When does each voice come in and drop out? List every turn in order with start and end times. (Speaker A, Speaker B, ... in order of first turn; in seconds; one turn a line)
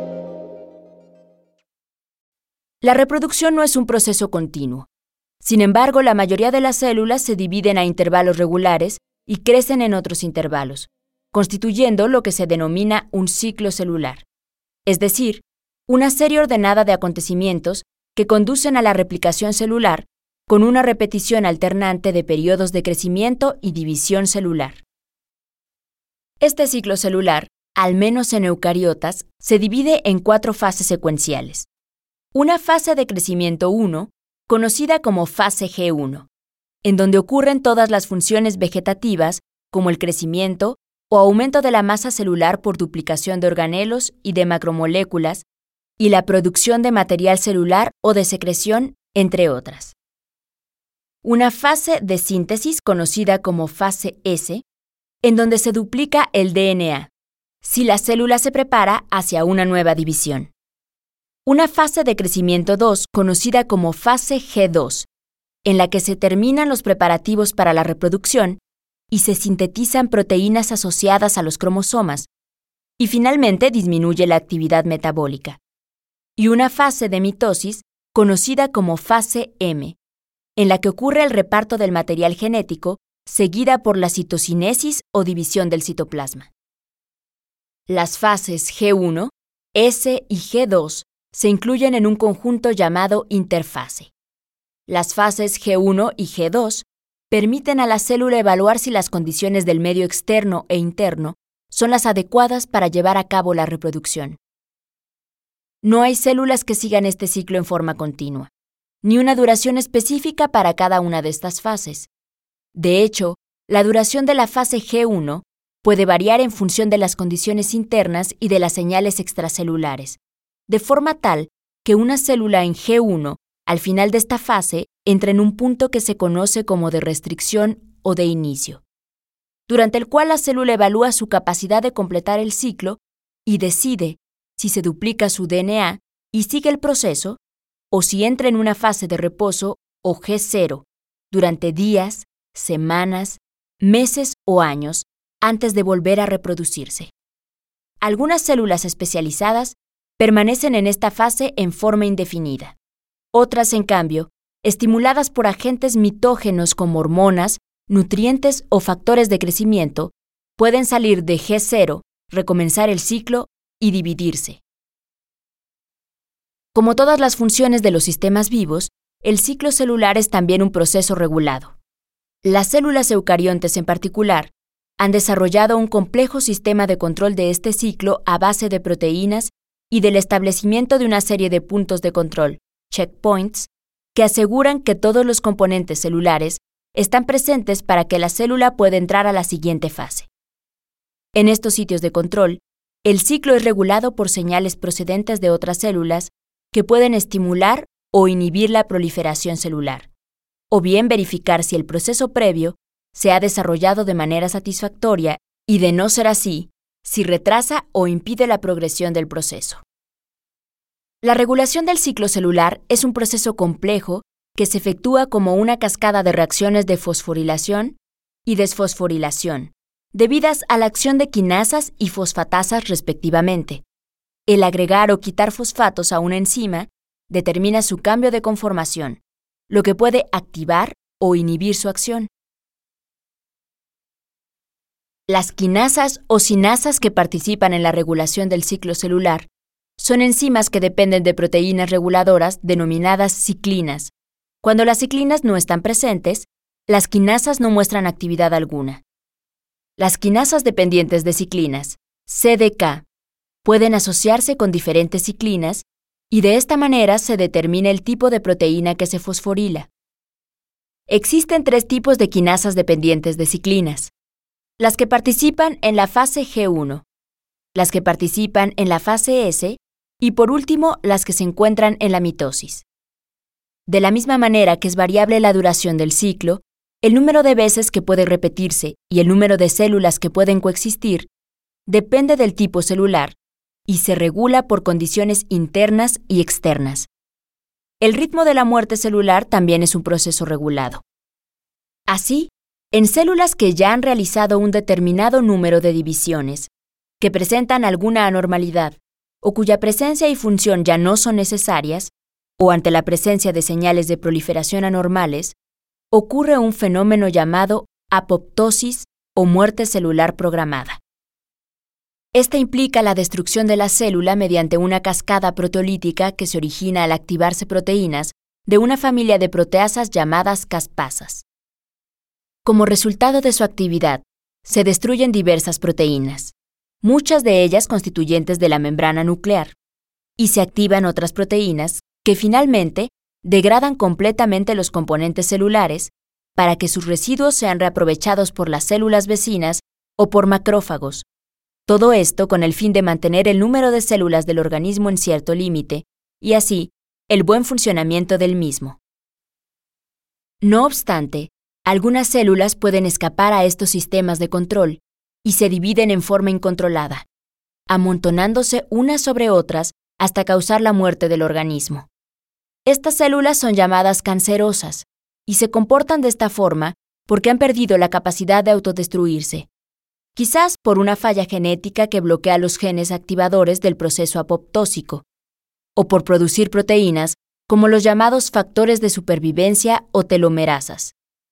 Speaker A: 2.8-4.9
Speaker A: 5.4-14.2
Speaker A: 14.9-24.8
Speaker A: 26.4-31.7
Speaker A: 32.3-36.3
Speaker A: 36.8-45.4
Speaker A: 46.0-49.9
Speaker A: 51.2-54.6
Speaker A: 55.2-57.1
Speaker A: 57.6-60.5
Speaker A: 61.5-65.1
Speaker A: 65.6-68.6
Speaker A: 69.1-72.3
Speaker A: 73.0-75.6
Speaker A: 76.4-80.0
Speaker A: 80.6-86.5
Speaker A: 87.9-94.1
Speaker A: 94.9-104.4
Speaker A: 105.8-108.5
Speaker A: 109.0-112.1
Speaker A: 112.7-128.8
Speaker A: 129.7-137.4
Speaker A: 137.9-147.1
Speaker A: 148.0-152.8
Speaker A: 153.3-164.6
Speaker A: 166.7-171.8
Speaker A: 172.4-190.3
Speaker A: 191.3-200.1
Speaker A: 200.7-209.8
Speaker A: 211.2-223.8
Speaker A: 224.5-232.3
Speaker A: 235.3-244.1
Speaker A: 244.6-249.0
Speaker A: 250.0-253.0
Speaker A: 253.6-259.9
Speaker A: 261.1-264.1
Speaker A: 264.8-267.0
Speaker A: 267.8-272.9
Speaker A: 273.9-281.3
Speaker A: 281.9-287.1
Speaker A: 288.0-291.0
Speaker A: 292.1-305.6
Speaker A: 306.1-311.0
Speaker A: 312.3-321.4
Speaker A: 322.6-329.8
Speaker A: 330.4-341.2
Speaker A: 341.9-349.0
Speaker A: 350.6-357.3
Speaker A: 357.9-362.1
Speaker A: 362.9-369.7
Speaker A: 370.3-375.2
Speaker A: 375.9-381.1